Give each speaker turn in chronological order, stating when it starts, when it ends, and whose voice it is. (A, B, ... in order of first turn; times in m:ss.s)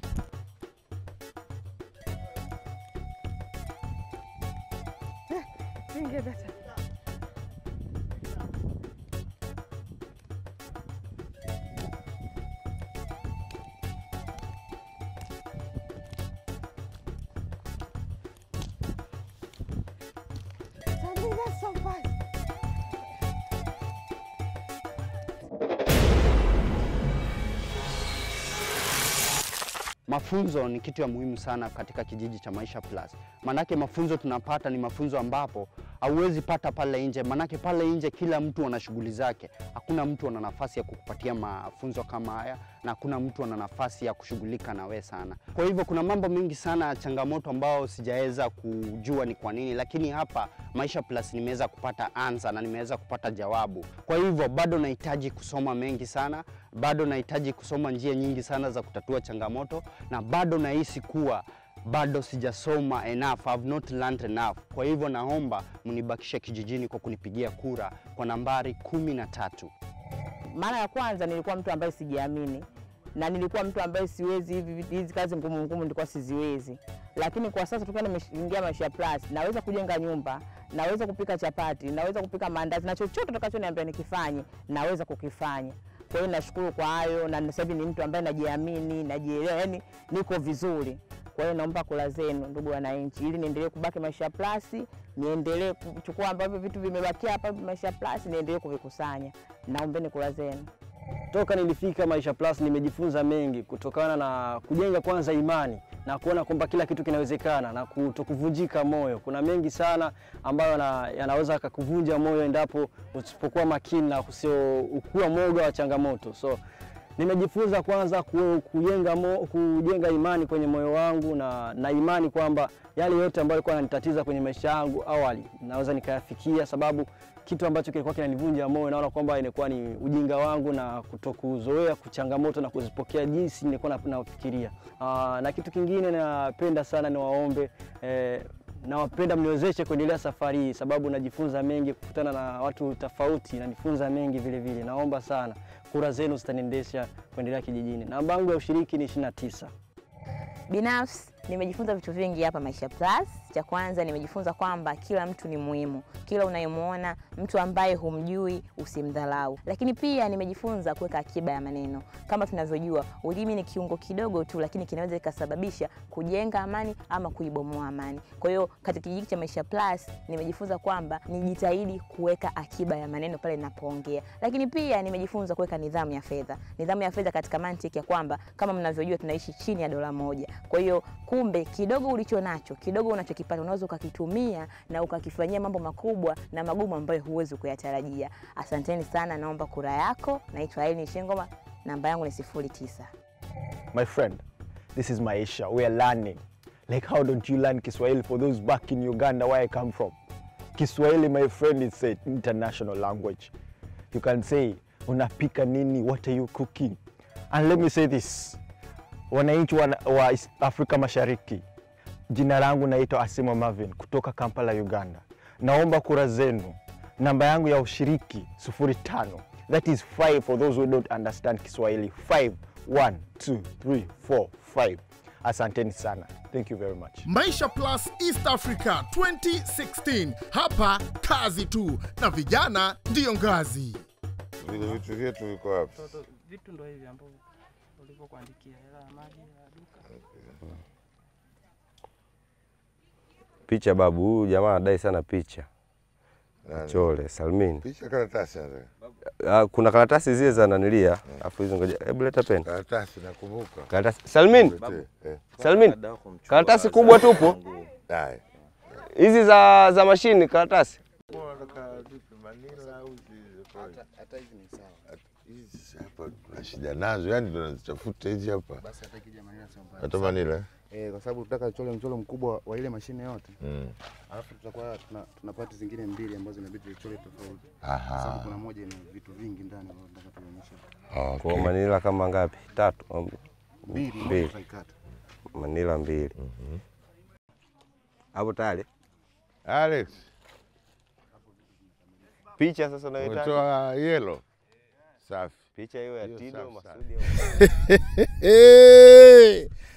0:30.1-1:09.7 A
1:10.6-1:12.6 B
1:13.2-1:40.6 B
1:41.3-1:56.6 C
1:57.2-2:29.7 C
2:30.7-3:13.1 D
3:13.9-3:14.4 E
3:14.9-3:20.2 E
3:20.7-3:23.5 E
3:24.1-3:27.0 E
3:27.5-3:28.6 E
3:29.3-3:31.6 E
3:32.3-3:47.2 E
3:47.2-3:54.1 F
3:54.6-3:56.1 G
3:55.9-3:57.4 H
3:58.0-4:00.0 H
4:00.2-4:00.6 G
4:03.7-4:05.7 I
4:06.6-4:07.1 G
4:06.8-4:07.8 I
4:07.8-4:08.9 G
4:09.4-4:12.6 I
4:12.6-4:13.9 G
4:13.9-4:14.9 I
4:14.5-4:15.7 G
4:15.6-4:17.6 I
4:18.1-4:18.4 G
4:19.0-4:21.0 I
4:21.3-4:24.0 G
4:22.7-4:23.1 J
4:23.7-4:25.0 J
4:25.1-4:28.8 G
4:28.8-4:33.6 J
4:30.0-4:30.6 G
4:33.6-4:33.9 G
4:34.3-4:40.9 J
4:37.8-4:38.6 G
4:41.1-4:41.7 G
4:41.4-4:43.4 I
4:43.8-4:44.9 J
4:44.0-4:44.5 I
4:45.5-4:46.3 I
4:46.4-4:46.8 G
4:48.3-4:48.9 I
4:49.6-4:50.3 G
4:52.6-4:53.6 I
4:53.2-4:54.4 G
4:55.2-4:55.6 G
4:55.7-4:57.4 I
4:56.2-4:57.0 G
4:57.4-4:59.7 F